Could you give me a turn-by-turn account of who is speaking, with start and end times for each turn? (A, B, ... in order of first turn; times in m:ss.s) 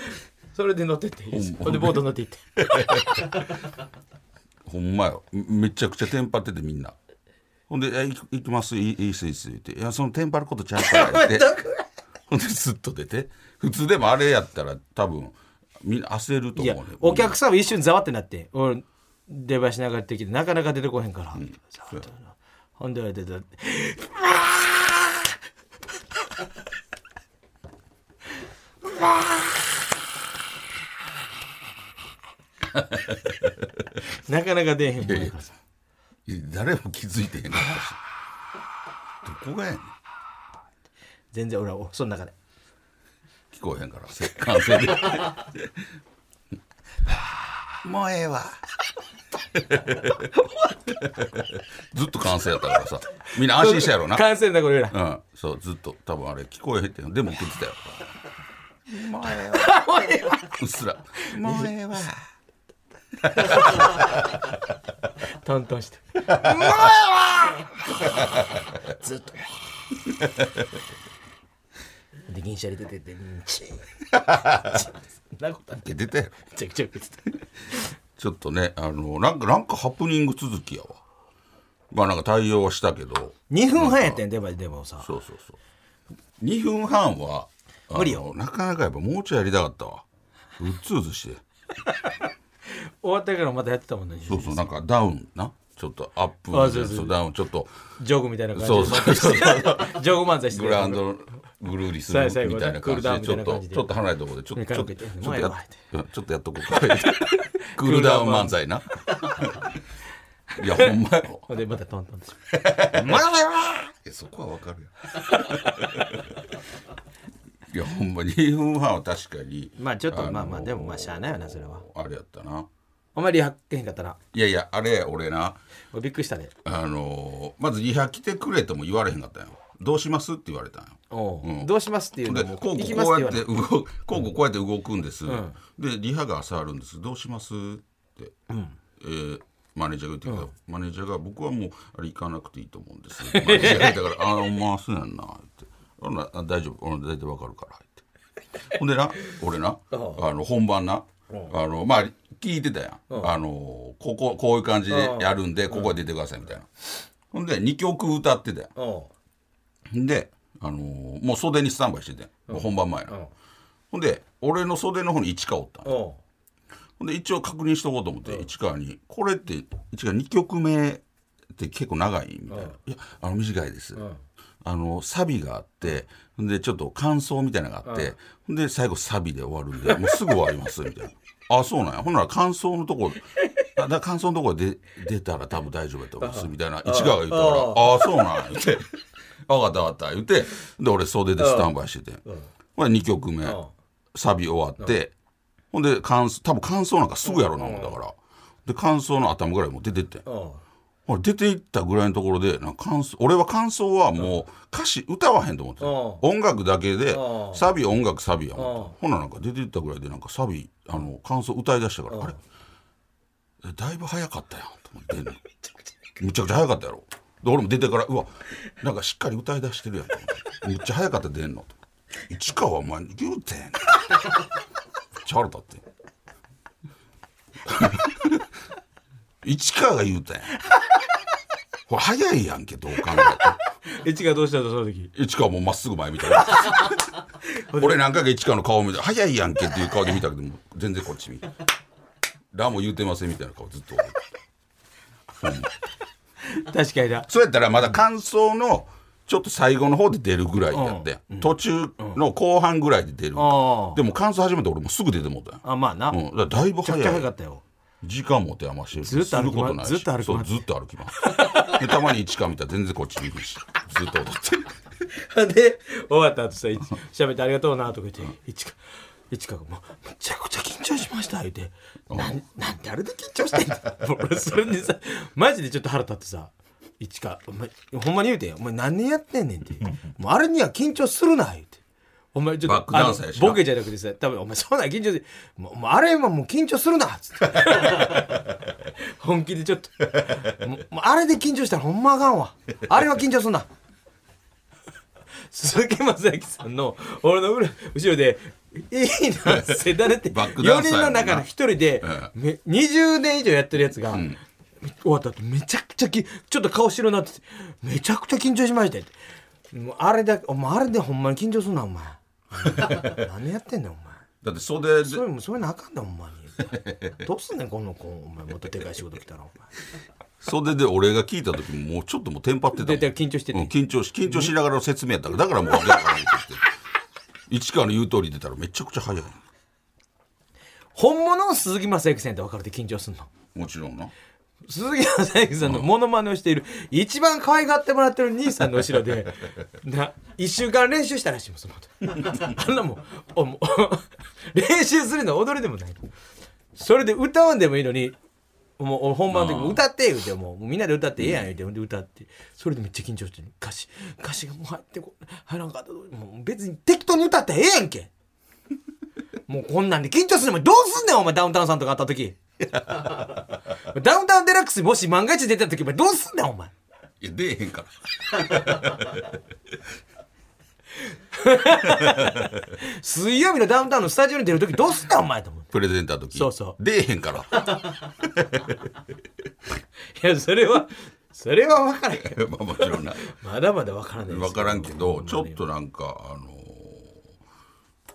0:00.5-0:03.1 A
0:01.3-0:03.4 B
0:04.6-0:06.9 B
0:07.7-0:11.6 B
0:10.8-0:11.8 A
0:12.3-0:17.4 B
0:16.6-0:25.3 A
0:21.4-0:22.0 B
0:28.9-0:29.5 A
0:32.7-0:33.6 B
0:34.1-0:35.5 A
0:35.0-0:35.3 B
0:36.2-0:38.0 B
0:39.2-0:39.9 B
0:41.3-0:42.3 A
0:43.5-0:45.9 B
0:47.8-0:48.6 B
0:49.6-0:50.3 B
0:50.4-0:50.8 A
0:51.0-0:54.3 B
0:53.3-0:55.0 A
0:54.9-0:58.1 B
0:58.9-1:02.2 B
0:59.5-1:00.6 A
1:01.2-1:01.7 A
1:03.3-1:04.0 A
1:03.4-1:04.0 B
1:05.3-1:08.4 A
1:06.4-1:07.0 B
1:08.2-1:08.4 B
1:09.0-1:09.5 A
1:10.2-1:10.6 B
1:12.3-1:15.8 A
1:14.2-1:14.8 B
1:15.7-1:16.4 B
1:16.4-1:17.4 A
1:18.2-1:21.0 B
1:21.9-1:24.2 B
1:23.5-1:25.1 A
1:25.0-1:25.6 B
1:26.4-1:30.0 B
1:27.9-1:28.2 A
1:30.6-1:31.4 B
1:32.7-1:34.7 A
1:34.3-1:37.7 B
1:36.5-1:37.2 A
1:38.0-1:41.0 A
1:38.5-1:49.7 B
1:42.1-1:43.8 A
1:44.5-1:45.8 A
1:46.8-1:48.6 A
1:50.5-1:50.9 A
1:50.6-1:51.5 B
1:51.5-1:53.9 A
1:52.5-1:56.3 B
1:55.3-1:55.9 A
1:57.7-2:02.7 B
1:59.8-2:01.8 A
2:03.1-2:04.2 A
2:04.3-2:05.6 B
2:05.9-2:06.5 A
2:06.6-2:11.7 B
2:11.1-2:13.5 A
2:12.2-2:18.3 B
2:15.2-2:15.6 A
2:18.5-2:18.7 A
2:19.0-2:28.0 B
2:23.2-2:24.1 A
2:28.7-2:36.7 B
2:29.9-2:30.2 A
2:31.3-2:31.5 A
2:34.9-2:35.9 A
2:37.3-2:38.7 B
2:38.8-2:39.1 A
2:39.9-2:43.1 B
2:42.5-2:43.3 A
2:43.9-2:46.0 B
2:45.8-2:46.2 A
2:47.0-2:51.0 B
2:51.5-2:54.0 B
2:52.5-2:52.8 A
2:54.6-3:08.9 B
2:57.8-2:58.1 A
3:06.2-3:08.2 A
3:09.4-3:12.2 B
3:11.4-3:11.7 A
3:12.8-3:13.6 B
3:13.4-3:13.7 A
3:14.1-3:15.1 B
3:15.7-3:20.2 B
3:17.2-3:18.0 A
3:20.2-3:20.6 A
3:21.0-3:32.4 B
3:25.8-3:26.2 A
3:27.1-3:27.7 A
3:28.6-3:28.9 A
3:32.1-3:32.4 A
3:33.6-3:35.4 B
3:36.2-3:41.7 B
3:42.3-3:44.1 B
3:45.2-3:45.8 B
3:47.6-3:48.5 B
3:49.4-3:50.5 B
3:51.9-3:53.6 B
3:53.8-3:55.1 A
3:55.1-3:57.0 B
3:56.4-3:57.0 A
3:57.5-3:58.0 A
3:57.7-4:01.5 B
4:02.5-4:04.2 B
4:05.4-4:05.7 B
4:06.5-4:07.3 A
4:07.3-4:17.3 B
4:10.7-4:12.2 A
4:13.3-4:14.0 A
4:15.6-4:16.2 A
4:16.8-4:17.6 A
4:18.0-4:24.7 B
4:19.0-4:20.6 A
4:21.2-4:21.8 A
4:25.1-4:28.8 A
4:29.3-4:41.8 A
4:32.1-4:32.3 B
4:42.3-4:53.7 A
4:42.6-4:43.7 B
4:55.5-5:09.1 A
4:59.5-5:01.5 B
5:02.0-5:02.3 B
5:04.1-5:04.4 B
5:09.7-5:14.2 A
5:12.8-5:13.1 B
5:14.4-5:15.2 B
5:15.0-5:19.7 A
5:16.7-5:17.2 B
5:20.4-5:26.7 B
5:22.8-5:23.7 A
5:24.2-5:24.5 A
5:27.5-5:29.4 B
5:30.9-5:33.3 A
5:33.5-5:34.1 B
5:34.7-5:46.0 A
5:46.7-5:48.2 A
5:48.8-5:58.1 A
5:49.3-5:49.8 B
5:59.5-6:02.4 A
6:03.8-6:06.7 A
6:07.2-6:09.4 B
6:11.3-6:15.7 A
6:11.8-6:12.6 B
6:15.7-6:18.8 B
6:16.3-6:16.8 A
6:20.1-6:25.6 A
6:22.2-6:23.2 B
6:24.2-6:27.2 B